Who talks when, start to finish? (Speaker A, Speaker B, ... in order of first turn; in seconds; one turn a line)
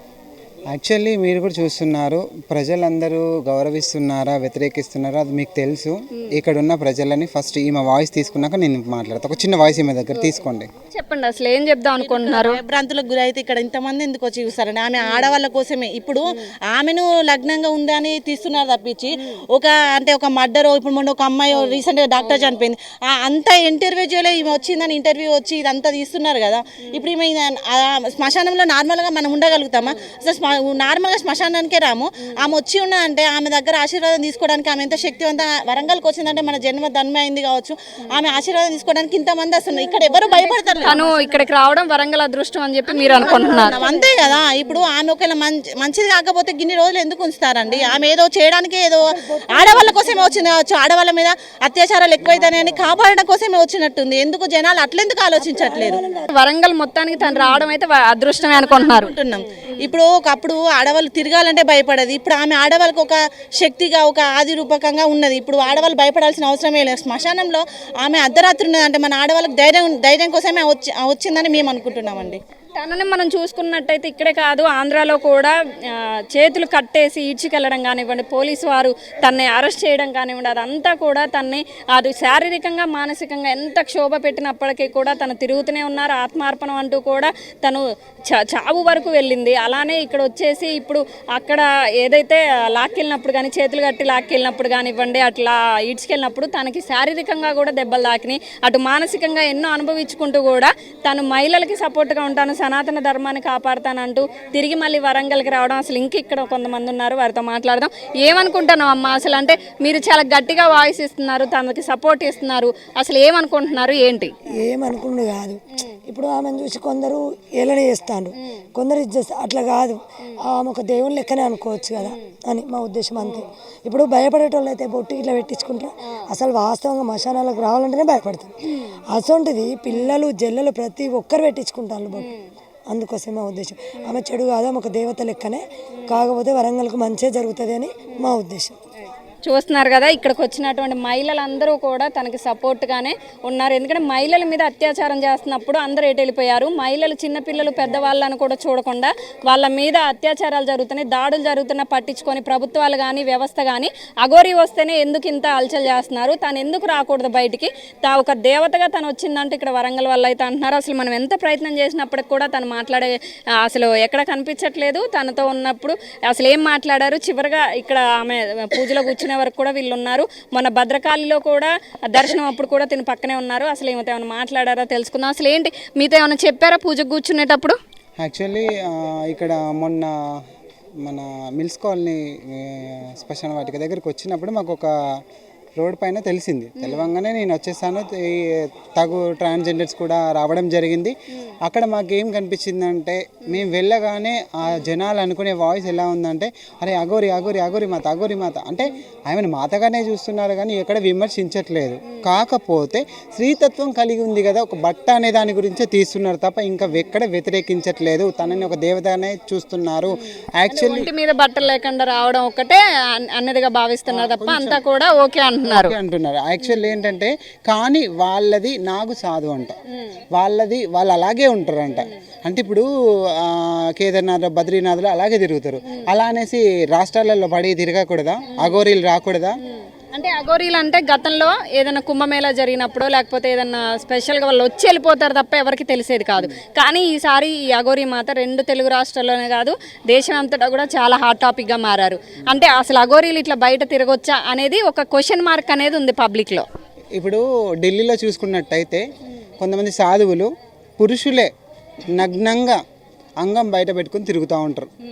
Speaker A: 0.7-10.7
Speaker B: 10.9-12.6
Speaker C: 12.0-41.0
Speaker D: 39.7-41.5
Speaker B: 40.8-43.8
Speaker D: 43.1-44.1
Speaker C: 43.1-56.0
Speaker D: 49.1-50.4
Speaker D: 55.4-56.3
Speaker B: 56.3-59.1
Speaker C: 58.5-72.4
Speaker B: 72.8-114.3
Speaker D: 114.5-128.5
Speaker D: 129.1-132.3
Speaker B: 132.2-132.4
Speaker D: 132.9-138.8
Speaker B: 139.4-177.8
Speaker A: 178.2-180.4
Speaker A: 181.0-184.9
Speaker A: 185.8-211.1
Speaker B: 186.8-187.1
Speaker B: 210.7-216.0
Speaker A: 214.1-214.8
Speaker A: 215.7-219.8
Speaker A: 220.3-229.6
Speaker B: 229.8-246.7
Speaker A: 247.2-249.1
Speaker A: 249.6-251.5
Speaker A: 252.1-252.8
Speaker A: 253.4-254.9